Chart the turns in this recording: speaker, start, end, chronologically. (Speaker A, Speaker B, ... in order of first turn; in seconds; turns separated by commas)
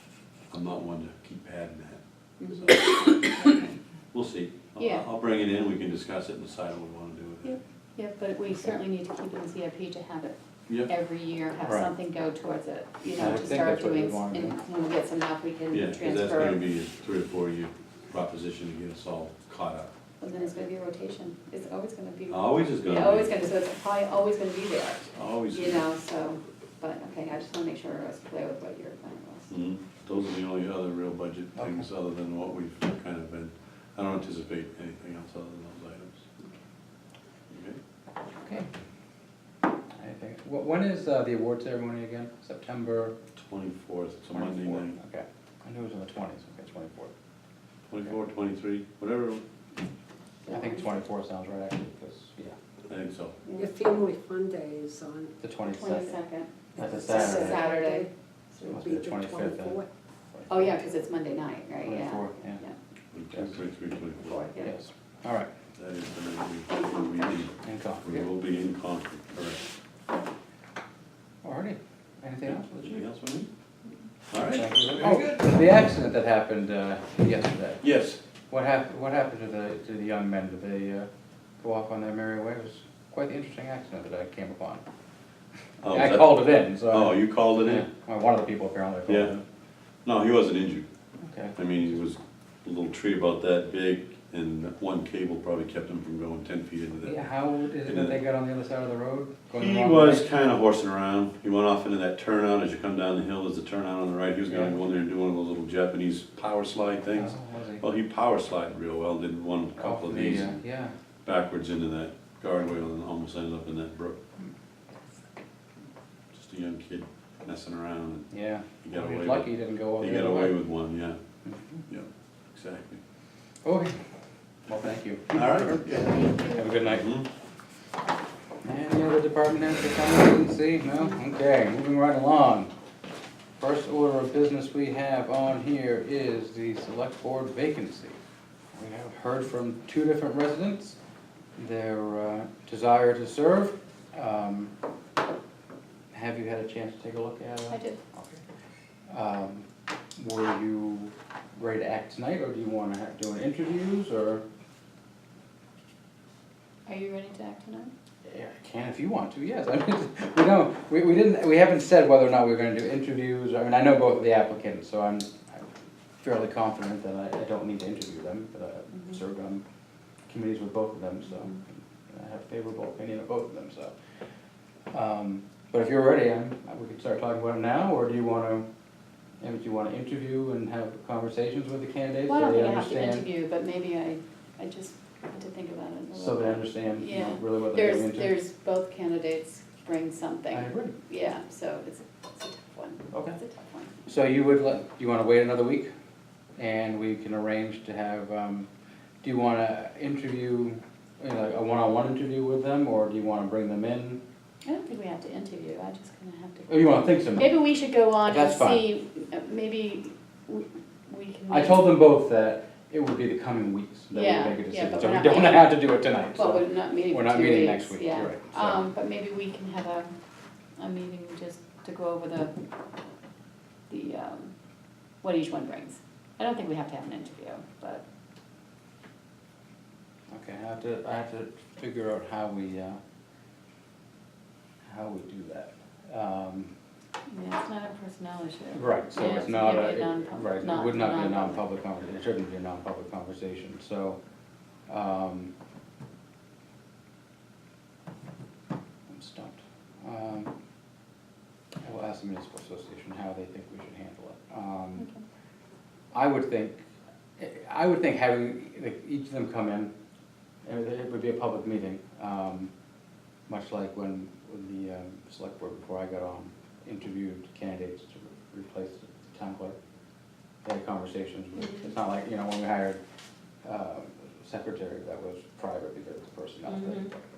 Speaker A: 0.5-7.6, Speaker B: 2.4-3.5, Speaker B: 4.8-5.0, Speaker B: 7.4-16.6, Speaker C: 11.6-11.9, Speaker C: 13.2-14.6, Speaker A: 15.7-19.9, Speaker B: 20.2-29.5, Speaker A: 22.3-23.3, Speaker A: 25.1-25.9, Speaker A: 29.5-36.2, Speaker C: 31.6-31.9, Speaker A: 37.5-37.8, Speaker C: 38.4-38.7, Speaker C: 39.9-43.2, Speaker A: 43.4-45.0, Speaker C: 44.3-47.1, Speaker A: 47.9-49.4, Speaker B: 50.5-50.8, Speaker C: 50.5-52.6, Speaker A: 52.9-53.4, Speaker B: 53.5-53.7, Speaker D: 53.5-55.4, Speaker C: 55.4-56.2, Speaker B: 55.7-58.1, Speaker C: 56.8-57.6, Speaker D: 56.8-59.9, Speaker C: 58.6-59.8, Speaker C: 60.3-60.7, Speaker B: 60.5-62.8, Speaker C: 61.8-62.6, Speaker A: 63.1-64.5, Speaker C: 63.3-63.6, Speaker B: 64.2-64.8, Speaker C: 64.6-65.5, Speaker A: 65.8-69.6, Speaker B: 66.7-67.5, Speaker C: 67.6-68.3, Speaker C: 71.4-73.1, Speaker A: 72.5-73.5, Speaker A: 74.3-75.9, Speaker C: 74.4-77.8, Speaker A: 77.8-78.2, Speaker C: 78.5-81.1, Speaker C: 81.6-84.8, Speaker A: 85.8-87.9, Speaker C: 85.8-89.4, Speaker A: 89.1-89.3, Speaker A: 90.0-90.9, Speaker C: 91.2-92.1, Speaker A: 91.6-97.2, Speaker C: 97.0-100.2, Speaker A: 97.8-98.2, Speaker A: 99.5-110.6, Speaker C: 104.5-104.8, Speaker C: 107.1-107.8, Speaker C: 109.8-110.9, Speaker A: 111.2-114.2, Speaker A: 116.3-118.3, Speaker C: 118.3-120.6, Speaker A: 118.8-121.2, Speaker C: 121.5-121.9, Speaker A: 121.9-123.0, Speaker C: 123.6-124.0, Speaker C: 124.7-127.1, Speaker A: 125.3-126.2, Speaker B: 125.9-126.7, Speaker A: 126.8-127.3, Speaker C: 128.6-132.7, Speaker C: 133.6-138.2, Speaker C: 138.7-141.0, Speaker C: 141.6-144.7, Speaker C: 146.1-148.4, Speaker B: 147.7-148.0, Speaker C: 149.1-154.4, Speaker B: 156.9-157.9, Speaker C: 158.3-169.6, Speaker C: 170.3-173.9, Speaker C: 174.9-178.7, Speaker C: 179.4-183.3, Speaker B: 182.3-194.1, Speaker C: 186.1-188.3, Speaker C: 190.5-191.0, Speaker C: 193.1-193.4, Speaker C: 194.1-195.9, Speaker C: 196.6-198.7, Speaker C: 199.2-204.2, Speaker B: 204.7-212.0, Speaker C: 206.7-207.7, Speaker C: 208.2-208.9, Speaker C: 211.5-218.8, Speaker B: 214.1-220.1, Speaker B: 220.8-222.5, Speaker B: 223.9-224.6, Speaker B: 225.2-228.0, Speaker C: 230.3-233.0, Speaker C: 234.8-236.7, Speaker B: 237.3-241.6, Speaker C: 238.7-244.2, Speaker C: 244.9-245.5, Speaker C: 249.1-250.5, Speaker C: 251.8-255.1, Speaker B: 255.0-255.2, Speaker C: 256.1-256.9, Speaker C: 257.4-259.9, Speaker C: 260.6-262.7, Speaker C: 263.5-269.8, Speaker C: 270.6-273.0, Speaker C: 273.6-277.1, Speaker B: 276.7-277.1